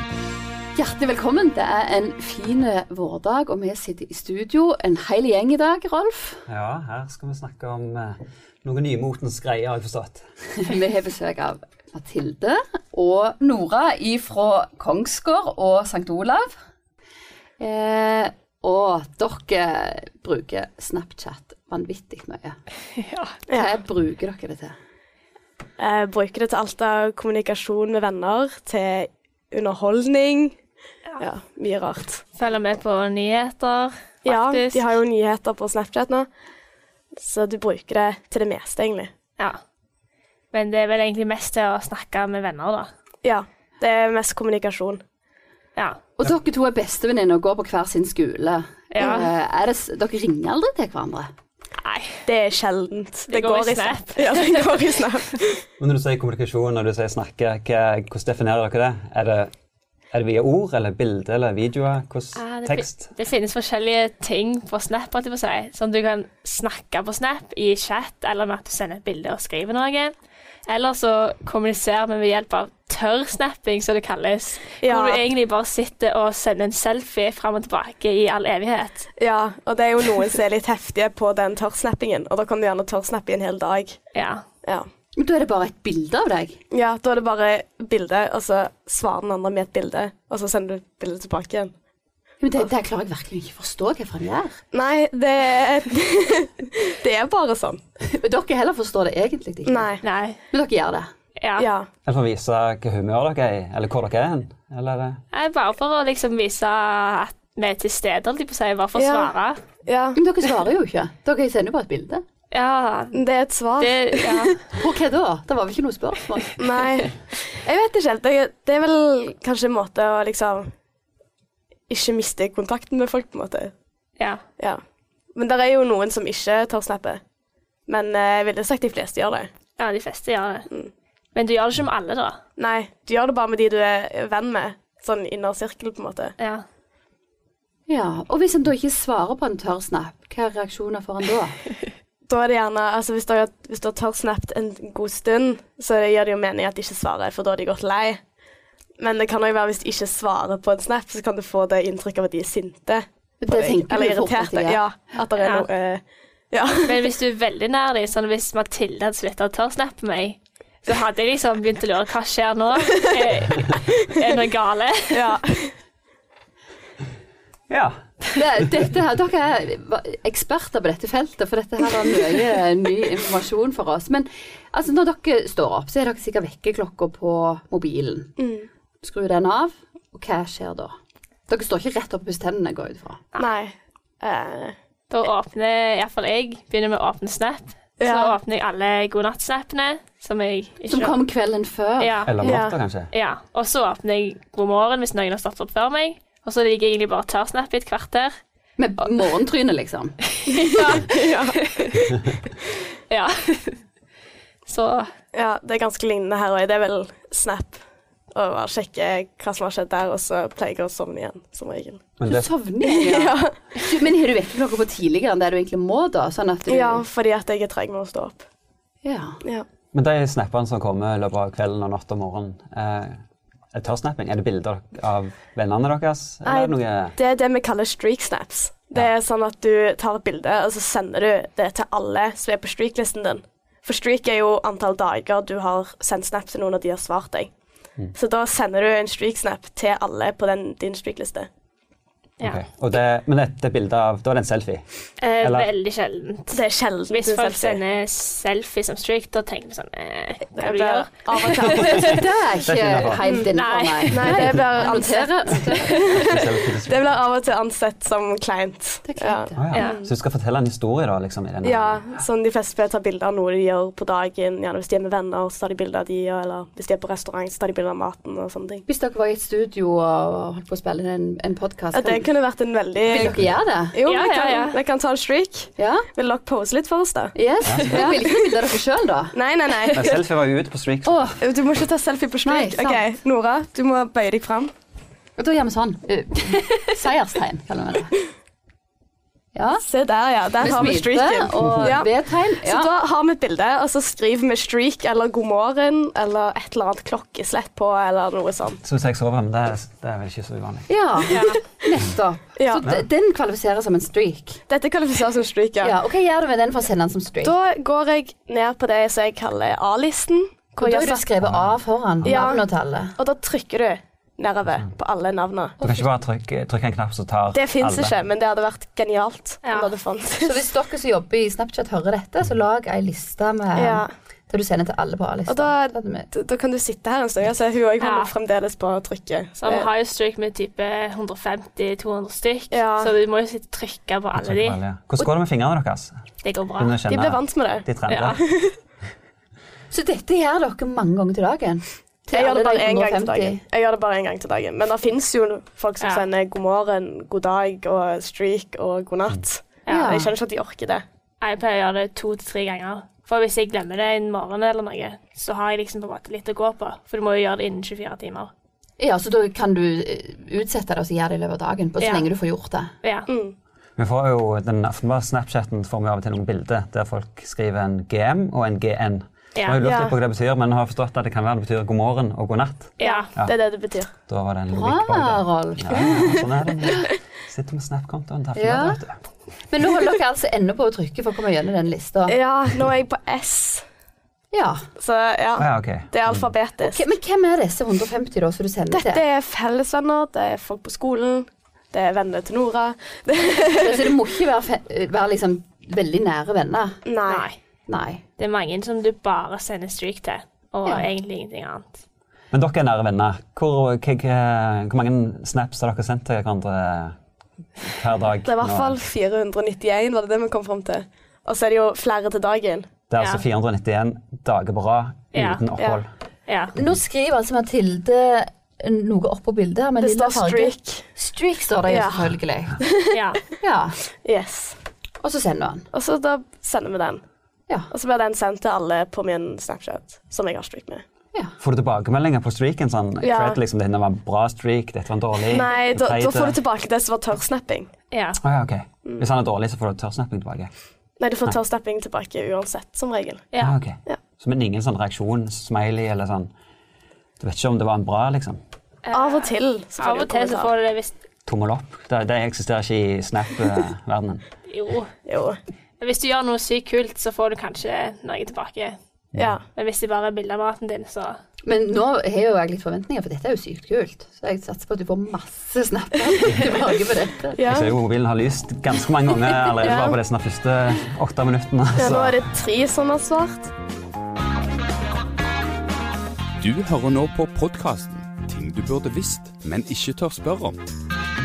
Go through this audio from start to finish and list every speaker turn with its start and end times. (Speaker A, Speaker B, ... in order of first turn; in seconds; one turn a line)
Speaker A: 0.8-6.4
Speaker B: 6.5-10.3
Speaker A: 10.6-16.5
Speaker A: 17.6-22.6
Speaker C: 23.0-23.4
Speaker D: 23.5-23.7
Speaker A: 23.5-24.8
Speaker D: 25.8-30.6
Speaker D: 31.2-32.2
Speaker C: 32.3-34.9
Speaker D: 34.2-36.3
Speaker D: 37.2-39.1
Speaker C: 40.5-42.9
Speaker D: 43.2-45.0
Speaker A: 46.2-51.3
Speaker C: 48.9-49.3
Speaker C: 51.8-52.2
Speaker D: 52.2-55.6
Speaker C: 53.3-54.8
Speaker B: 55.8-59.5
Speaker B: 60.1-63.1
Speaker C: 62.4-70.1
Speaker C: 70.7-79.1
Speaker D: 74.8-75.3
Speaker D: 79.2-84.0
Speaker C: 84.1-84.4
Speaker A: 85.2-86.6
Speaker D: 86.7-91.7
Speaker A: 92.4-94.6
Speaker D: 94.7-97.8
Speaker A: 98.0-100.0
Speaker D: 99.7-100.0
Speaker C: 100.0-100.4
Speaker A: 100.5-101.1
Speaker C: 101.4-101.7
Speaker D: 101.6-101.9
Speaker B: 102.1-105.2
Speaker C: 105.3-109.6
Speaker D: 109.0-109.3
Speaker D: 109.8-110.2
Speaker A: 110.2-112.2
Speaker C: 112.5-113.2
Speaker D: 113.1-114.5
Speaker C: 113.8-114.6
Speaker A: 114.7-116.6
Speaker D: 116.6-120.7
Speaker D: 121.9-123.7
Speaker D: 125.3-127.2
Speaker D: 127.9-129.5
Speaker C: 129.8-130.7
Speaker C: 131.3-132.4
Speaker D: 132.6-136.3
Speaker C: 136.4-136.7
Speaker A: 137.9-141.6
Speaker D: 142.3-148.2
Speaker D: 149.0-157.1
Speaker A: 153.4-154.8
Speaker C: 155.4-155.7
Speaker C: 156.8-165.2
Speaker D: 165.1-165.7
Speaker B: 167.7-168.0
Speaker A: 168.3-178.3
Speaker D: 178.4-178.7
Speaker A: 179.0-180.9
Speaker A: 181.5-183.2
Speaker D: 183.4-184.8
Speaker C: 185.1-191.2
Speaker D: 188.0-188.4
Speaker A: 190.9-192.2
Speaker C: 192.0-192.4
Speaker B: 192.2-193.1
Speaker D: 192.4-192.8
Speaker C: 193.1-198.4
Speaker A: 198.8-200.6
Speaker C: 200.6-202.1
Speaker D: 200.9-201.6
Speaker C: 203.1-203.8
Speaker C: 204.7-205.1
Speaker D: 205.3-207.8
Speaker D: 208.3-212.0
Speaker B: 212.2-212.5
Speaker A: 212.3-217.1
Speaker D: 212.8-213.6
Speaker D: 216.7-218.4
Speaker A: 219.0-219.4
Speaker B: 219.9-223.2
Speaker B: 223.7-227.2
Speaker D: 226.4-237.5
Speaker D: 238.1-241.5
Speaker B: 242.4-244.8
Speaker C: 245.2-252.1
Speaker B: 245.4-245.7
Speaker D: 246.5-247.8
Speaker D: 250.6-252.2
Speaker B: 251.9-253.3
Speaker A: 252.0-256.0
Speaker D: 253.2-253.5
Speaker C: 253.5-256.2
Speaker D: 254.1-260.1
Speaker B: 254.2-254.8
Speaker B: 256.0-257.2
Speaker A: 259.1-259.7
Speaker B: 259.6-262.0
Speaker C: 259.7-260.0
Speaker D: 261.6-268.9
Speaker A: 268.9-272.3
Speaker D: 271.9-278.3
Speaker A: 273.0-274.0
Speaker B: 273.1-273.6
Speaker C: 274.1-274.8
Speaker A: 275.8-276.1
Speaker A: 277.4-279.4
Speaker B: 277.6-278.2
Speaker D: 279.3-280.2
Speaker B: 279.9-281.4
Speaker A: 281.1-281.4
Speaker D: 281.4-284.7
Speaker A: 282.4-283.1
Speaker A: 285.4-288.2
Speaker A: 289.5-289.9
Speaker D: 289.8-298.8
Speaker A: 290.6-292.9
Speaker B: 298.8-301.0
Speaker A: 300.9-304.6
Speaker C: 301.3-301.6
Speaker D: 302.6-302.9
Speaker D: 304.7-306.0
Speaker A: 305.8-307.6
Speaker D: 307.4-311.3
Speaker A: 310.8-313.1
Speaker B: 311.4-312.4
Speaker D: 312.2-315.8
Speaker A: 315.8-316.1
Speaker B: 315.8-318.1
Speaker D: 317.5-320.7
Speaker C: 319.6-319.9
Speaker A: 320.4-326.3
Speaker D: 323.7-324.1
Speaker D: 325.5-329.9
Speaker C: 328.0-328.3
Speaker C: 329.6-334.8
Speaker D: 332.7-333.1
Speaker B: 334.4-336.2
Speaker C: 336.4-337.0
Speaker B: 336.8-338.4
Speaker D: 337.1-338.8
Speaker C: 338.1-338.4
Speaker A: 339.9-343.6
Speaker D: 342.3-351.0
Speaker C: 349.9-350.1
Speaker A: 349.9-350.3
Speaker C: 351.4-358.5
Speaker A: 359.0-362.9
Speaker C: 362.0-362.3
Speaker C: 363.0-363.3
Speaker D: 363.3-363.6
Speaker B: 364.0-373.6
Speaker D: 369.8-370.2
Speaker C: 373.0-373.3
Speaker D: 373.0-374.1
Speaker B: 374.3-379.2
Speaker A: 374.7-376.4
Speaker A: 378.6-379.0
Speaker A: 379.7-382.4
Speaker D: 382.3-383.9
Speaker A: 384.5-384.8
Speaker D: 385.0-387.1
Speaker B: 385.6-386.5
Speaker A: 386.8-389.2
Speaker D: 388.9-394.2
Speaker A: 393.7-397.0
Speaker D: 397.1-397.5
Speaker C: 397.3-397.6
Speaker A: 397.9-398.2
Speaker C: 398.4-402.0
Speaker B: 402.5-407.2
Speaker B: 407.8-409.0
Speaker D: 408.4-412.9
Speaker B: 413.1-416.1
Speaker C: 413.2-413.4
Speaker C: 415.3-415.6
Speaker D: 415.8-416.0
Speaker C: 416.5-416.7
Speaker A: 416.8-422.8
Speaker D: 420.0-421.1
Speaker D: 421.9-423.1
Speaker C: 423.1-423.4
Speaker A: 423.6-424.0
Speaker D: 424.2-424.8
Speaker A: 425.2-425.9
Speaker D: 425.9-427.2
Speaker D: 427.9-431.1
Speaker B: 431.6-436.6
Speaker D: 433.2-433.6
Speaker D: 435.5-437.9
Speaker C: 438.1-438.4
Speaker B: 438.4-440.7
Speaker D: 441.2-443.4
Speaker C: 443.5-443.8
Speaker B: 443.6-446.5
Speaker B: 447.4-448.6
Speaker C: 449.0-451.2
Speaker D: 449.1-450.7
Speaker B: 451.5-454.4
Speaker C: 454.7-455.1
Speaker D: 455.3-455.6
Speaker C: 456.0-459.0
Speaker D: 459.4-459.6
Speaker C: 459.8-461.4
Speaker A: 461.6-467.7
Speaker D: 467.5-467.9
Speaker B: 467.7-472.4
Speaker D: 469.6-470.2
Speaker D: 472.0-473.7
Speaker E: 476.6-480.8